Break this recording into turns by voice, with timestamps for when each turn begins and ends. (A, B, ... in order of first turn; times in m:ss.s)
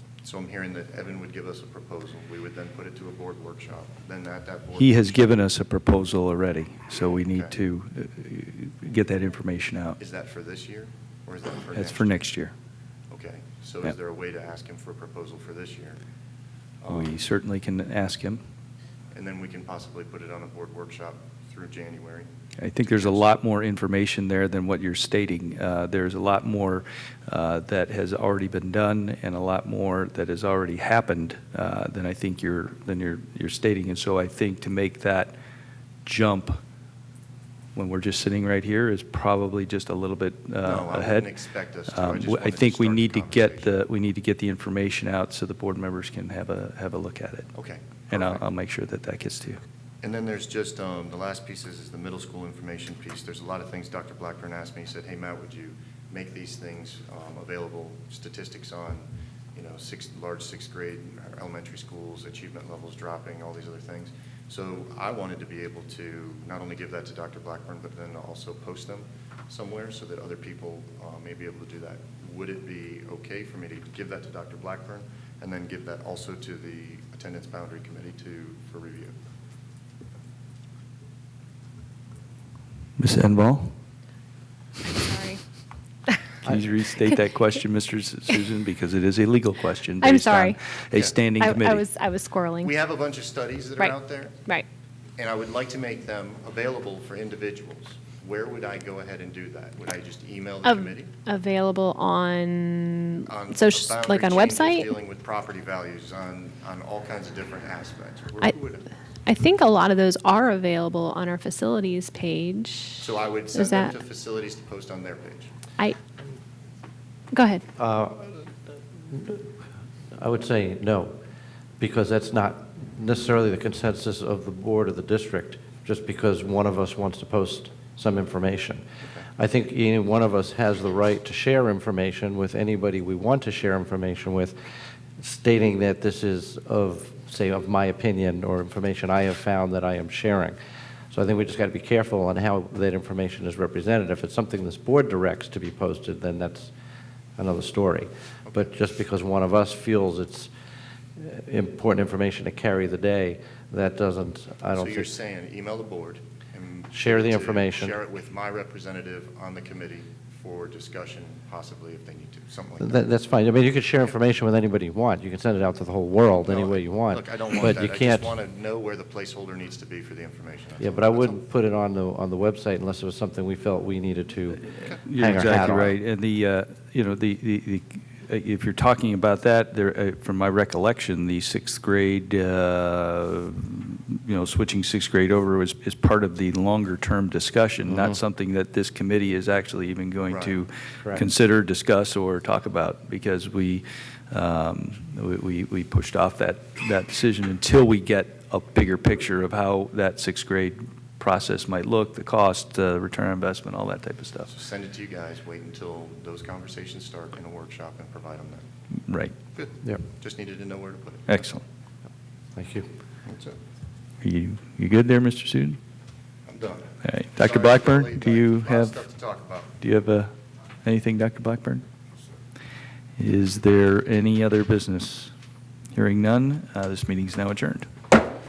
0:00.2-0:05.4 A
0:04.8-0:10.0 B
0:10.0-0:12.3 A
0:11.7-0:12.6 B
0:13.1-0:16.0 A
0:16.8-0:17.2 A
0:16.9-0:18.4 B
0:19.1-0:22.3 A
0:22.6-0:35.4 B
0:22.9-0:23.2 A
0:36.0-0:36.6 B
0:37.8-0:41.3 B
0:40.6-0:43.7 A
0:41.9-0:47.5 B
0:47.5-0:48.4 A
0:48.1-0:49.6 B
0:50.0-1:19.2 A
1:23.0-1:23.8 B
1:24.9-1:25.4 C
1:26.4-1:31.8 B
1:30.0-1:30.6 C
1:31.4-1:32.7 C
1:32.6-1:34.4 A
1:35.2-1:41.2 A
1:40.6-1:44.9 C
1:43.3-1:48.9 A
1:49.2-1:53.9 C
1:53.0-1:55.5 A
1:57.3-1:57.6 C
1:57.8-1:58.4 D
1:59.0-1:59.5 D
2:00.2-2:01.2 D
2:01.8-2:08.8 D
2:09.4-2:14.6 D
2:15.2-2:20.6 D
2:21.1-2:26.7 D
2:27.4-2:30.5 D
2:31.2-2:35.1 D
2:34.8-2:43.1 A
2:36.9-2:38.0 D
2:42.8-2:48.3 D
2:46.4-2:51.4 A
2:50.8-2:56.0 D
2:54.7-3:24.5 B
3:07.9-3:08.2 D
3:10.3-3:10.6 A
3:11.0-3:11.3 D
3:24.5-3:28.6 A
3:29.1-3:29.4 B
3:29.6-3:31.3 A
3:31.3-3:31.6 B
3:32.6-3:32.9 D
3:33.3-3:33.6 A
3:34.2-3:35.8 B
3:36.5-3:39.7 A
3:37.0-3:39.0 B
3:39.8-3:41.8 B
3:43.2-3:45.3 B
3:45.9-3:47.9 B